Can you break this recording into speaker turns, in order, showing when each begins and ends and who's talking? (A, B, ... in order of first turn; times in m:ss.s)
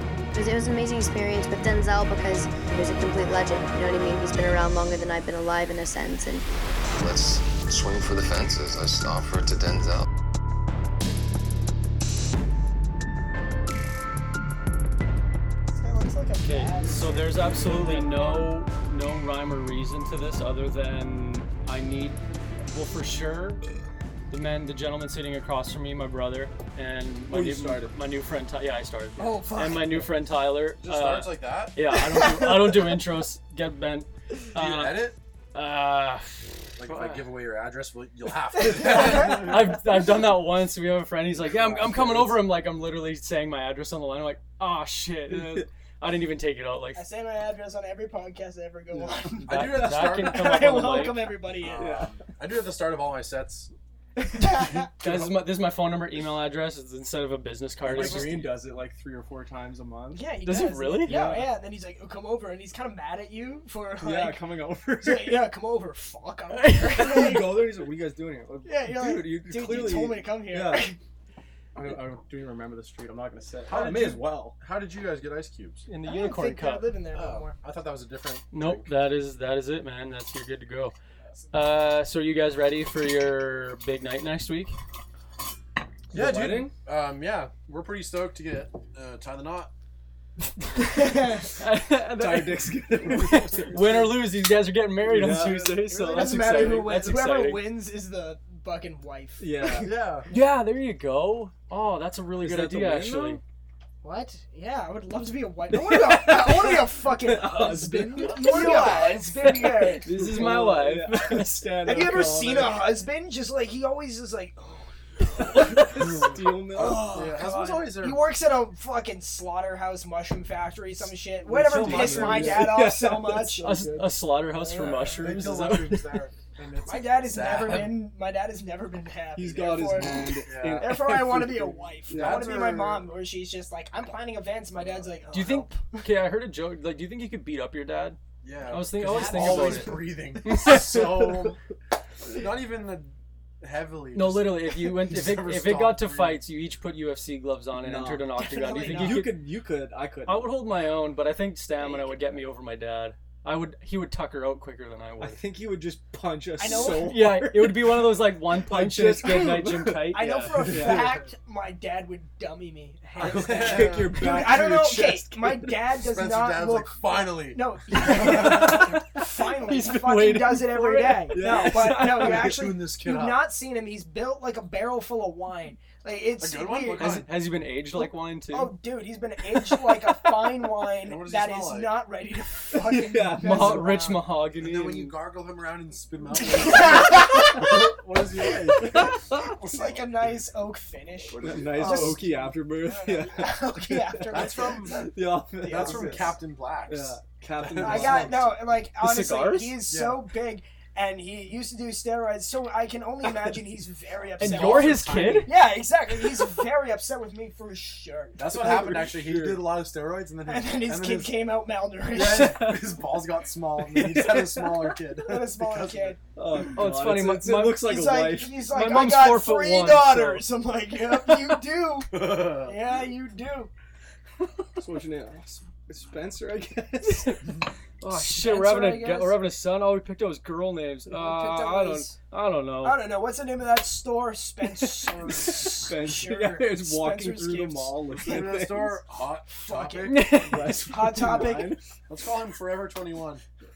0:00.3-0:06.4 A
0:07.0-0:10.1 B
0:15.7-0:18.5 C
0:16.4-0:23.6 D
0:24.3-0:37.3 D
0:27.3-0:27.9 E
0:29.2-0:30.0 C
0:30.8-0:31.8 F
0:32.0-0:32.8 C
0:34.5-0:35.2 F
0:36.8-0:40.1 F
0:38.7-0:39.0 C
0:38.8-0:47.0 D
0:41.4-0:42.5 F
0:45.3-0:45.6 E
0:46.9-0:52.0 C
0:49.4-0:50.8 F
0:49.4-0:51.3 D
0:51.6-0:53.7 F
0:51.8-0:52.1 E
0:54.2-0:54.9 C
0:54.4-0:55.5 F
0:55.0-0:58.5 D
0:57.8-1:00.3 E
0:57.9-0:58.3 F
1:00.1-1:04.4 C
1:00.4-1:01.3 D
1:01.0-1:01.4 E
1:04.0-1:05.4 E
1:05.0-1:07.6 C
1:06.5-1:07.4 D
1:07.0-1:10.9 E
1:08.6-1:11.0 C
1:11.7-1:14.5 E
1:13.7-1:15.8 F
1:15.9-1:16.8 D
1:16.0-1:17.5 C
1:17.1-1:18.9 F
1:18.5-1:20.9 D
1:21.5-1:24.7 D
1:26.1-1:29.7 F
1:26.1-1:26.7 E
1:30.8-1:31.5 C
1:31.6-1:37.6 D
1:32.2-1:34.2 E
1:35.0-1:35.8 E
1:35.2-1:36.9 F
1:35.9-1:39.9 C
1:36.3-1:36.7 E
1:39.4-1:39.9 E
1:39.8-1:40.3 F
1:40.3-1:43.4 D
1:42.4-1:43.4 E
1:44.0-1:50.2 C
1:45.8-1:52.8 E
1:48.2-1:49.2 F
1:50.0-1:52.2 D
1:51.8-1:55.9 C
1:55.4-1:57.2 E
1:56.1-1:58.2 F
1:56.7-2:03.7 C
2:01.4-2:04.1 E
2:01.5-2:02.9 F
2:03.6-2:06.2 D
2:04.5-2:05.3 C
2:05.1-2:07.9 F
2:06.8-2:16.0 C
2:09.4-2:12.6 E
2:10.4-2:10.9 F
2:12.1-2:13.0 F
2:14.8-2:15.1 F
2:15.3-2:18.2 D
2:18.4-2:21.6 F
2:18.7-2:21.2 D
2:19.0-2:20.0 C
2:20.4-2:21.6 E
2:22.2-2:26.4 F
2:24.1-2:29.4 D
2:27.7-2:30.5 E
2:28.4-2:29.3 C
2:30.2-2:35.4 D
2:31.8-2:32.3 C
2:35.2-2:41.2 E
2:36.6-2:37.2 C
2:36.6-2:41.0 D
2:40.1-2:57.2 C
2:40.8-2:41.1 F
2:43.2-2:45.8 E
2:43.2-2:44.6 F
2:46.0-2:48.8 F
2:48.0-2:51.7 D
2:50.7-2:52.6 E
2:51.9-2:53.5 F
2:56.4-2:57.3 F
2:57.0-2:58.7 D
2:57.9-3:04.2 C
3:01.0-3:02.0 F
3:02.8-3:03.9 E
3:03.4-3:05.2 D
3:04.6-3:10.1 F
3:06.4-3:16.4 C
3:09.0-3:09.5 E
3:11.3-3:12.3 F
3:11.3-3:18.5 E
3:14.3-3:15.0 F
3:15.6-3:18.5 F
3:17.8-3:29.0 C
3:19.0-3:19.8 D
3:19.8-3:20.2 F
3:24.4-3:25.5 D
3:24.4-3:25.5 F
3:28.4-3:31.4 F
3:28.4-3:29.7 E
3:30.5-3:32.6 C
3:32.1-3:36.2 F
3:32.2-3:32.6 E
3:33.8-3:35.0 E
3:35.2-3:36.2 C
3:36.4-3:38.6 E
3:36.7-3:38.1 D
3:37.8-3:43.7 C
3:38.6-3:40.5 D
3:41.1-3:41.5 D
3:42.1-3:42.7 F
3:44.7-3:47.6 E
3:47.0-3:53.0 D
3:48.1-3:49.4 C
3:51.1-3:52.1 C
3:52.8-3:58.0 C
3:55.4-3:59.0 E
3:58.2-4:00.7 F
3:59.5-4:01.7 C
4:00.1-4:00.7 D
4:00.4-4:01.8 E
4:02.1-4:03.4 F